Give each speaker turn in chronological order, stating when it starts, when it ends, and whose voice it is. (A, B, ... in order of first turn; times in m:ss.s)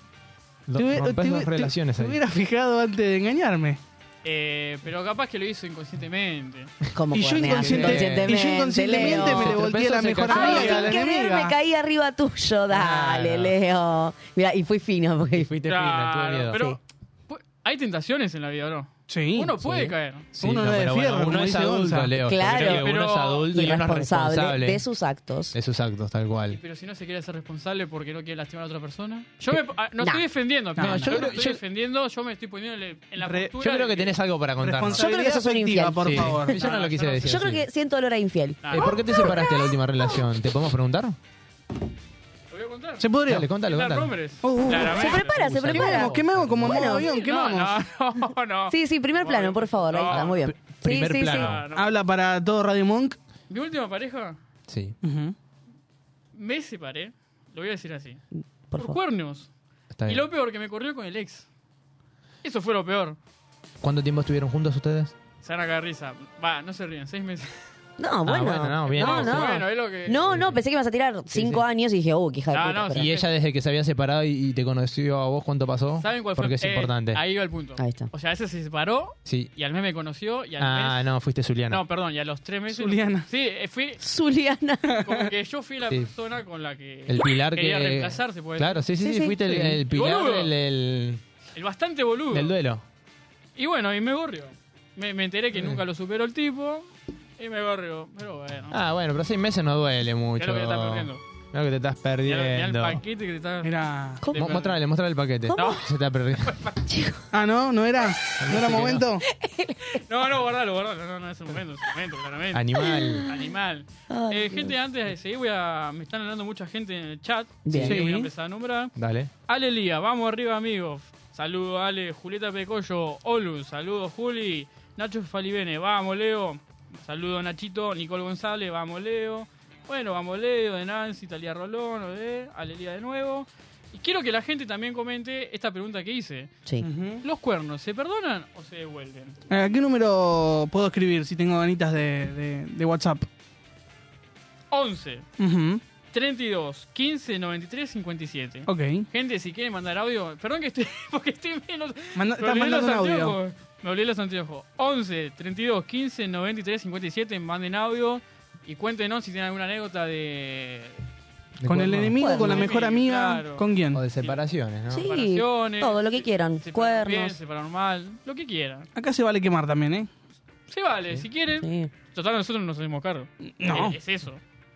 0:00.7-0:02.2 A
0:00.8-0:03.8 B
0:04.2-0:06.7 C
0:06.9-0:09.6 D
0:07.1-0:11.5 B
0:07.4-0:11.0 A
0:10.3-0:15.5 D
0:12.7-0:13.5 A
0:15.3-0:16.6 A
0:15.6-0:20.2 C
0:19.1-0:19.6 B
0:20.3-0:22.2 B
0:20.4-0:24.8 A
0:22.2-0:22.9 D
0:22.6-0:23.5 C
0:23.5-0:25.5 D
0:25.5-0:26.6 A
0:26.5-0:34.1 C
0:30.8-0:31.3 B
0:30.8-0:31.6 A
0:33.2-0:33.5 B
0:33.6-0:35.1 A
0:34.6-0:36.6 B
0:34.9-0:36.6 D
0:36.0-0:37.6 A
0:36.5-0:37.4 C
0:37.2-0:39.5 D
0:38.6-0:38.9 C
0:38.7-0:41.2 A
0:42.5-0:43.1 C
0:43.0-0:43.5 B
0:43.3-0:44.1 A
0:43.6-0:45.7 C
0:44.4-0:45.1 B
0:44.8-0:47.1 D
0:45.3-0:46.9 A
0:45.7-0:47.8 B
0:46.9-0:50.4 C
0:48.7-0:51.5 D
0:50.1-0:51.6 A
0:51.2-0:51.9 C
0:51.7-0:53.2 B
0:53.5-0:54.4 C
0:54.7-0:55.0 A
0:55.0-0:55.3 B
0:56.3-0:58.2 C
0:58.7-0:59.0 D
0:58.8-0:59.5 C
0:59.9-1:00.2 A
1:00.0-1:01.4 C
1:02.4-1:03.2 C
1:03.8-1:05.1 A
1:05.4-1:07.5 C
1:08.0-1:13.1 D
1:08.2-1:09.6 A
1:08.9-1:10.3 C
1:10.2-1:10.6 A
1:11.3-1:11.6 A
1:12.5-1:13.3 C
1:12.9-1:17.2 A
1:16.0-1:21.0 C
1:17.8-1:18.1 D
1:19.2-1:19.5 A
1:20.6-1:21.8 A
1:21.7-1:24.0 C
1:22.7-1:23.3 B
1:24.0-1:24.9 D
1:24.9-1:25.2 B
1:25.0-1:28.8 C
1:27.1-1:31.2 A
1:29.0-1:29.6 D
1:29.9-1:30.5 C
1:31.5-1:32.5 C
1:32.3-1:32.8 A
1:33.6-1:38.8 C
1:35.5-1:35.8 A
1:38.7-1:43.0 A
1:40.4-1:41.2 C
1:42.2-1:43.7 C
1:43.6-1:44.2 B
1:44.2-1:44.6 D
1:44.3-1:44.8 C
1:44.3-1:46.6 A
1:45.4-1:45.8 D
1:45.5-1:45.9 C
1:46.4-1:46.8 C
1:46.8-1:47.2 D
1:47.3-1:49.3 B
1:48.4-1:49.0 A
1:49.3-1:50.0 D
1:50.0-1:52.7 C
1:52.5-1:53.3 A
1:52.8-1:53.4 D
1:53.3-1:58.9 C
1:54.1-1:54.8 D
1:57.6-1:58.0 D
1:57.8-1:58.3 B
1:59.0-1:59.3 A
1:59.5-2:16.5 C
2:16.8-2:17.2 B
2:17.2-2:19.4 C
2:19.5-2:23.2 B
2:24.7-2:25.2 C
2:25.4-2:25.8 B
2:26.1-2:41.0 C
2:28.7-2:29.1 B
2:32.2-2:33.4 B
2:41.6-2:42.2 A
2:41.6-2:44.0 B
2:42.2-2:42.7 D
2:42.2-2:43.7 C
2:43.9-2:45.1 A
2:44.9-2:47.4 D
2:45.0-2:48.9 C
2:48.9-2:50.1 B
2:50.7-2:54.4 C
2:51.6-2:51.9 D
2:53.5-2:54.0 B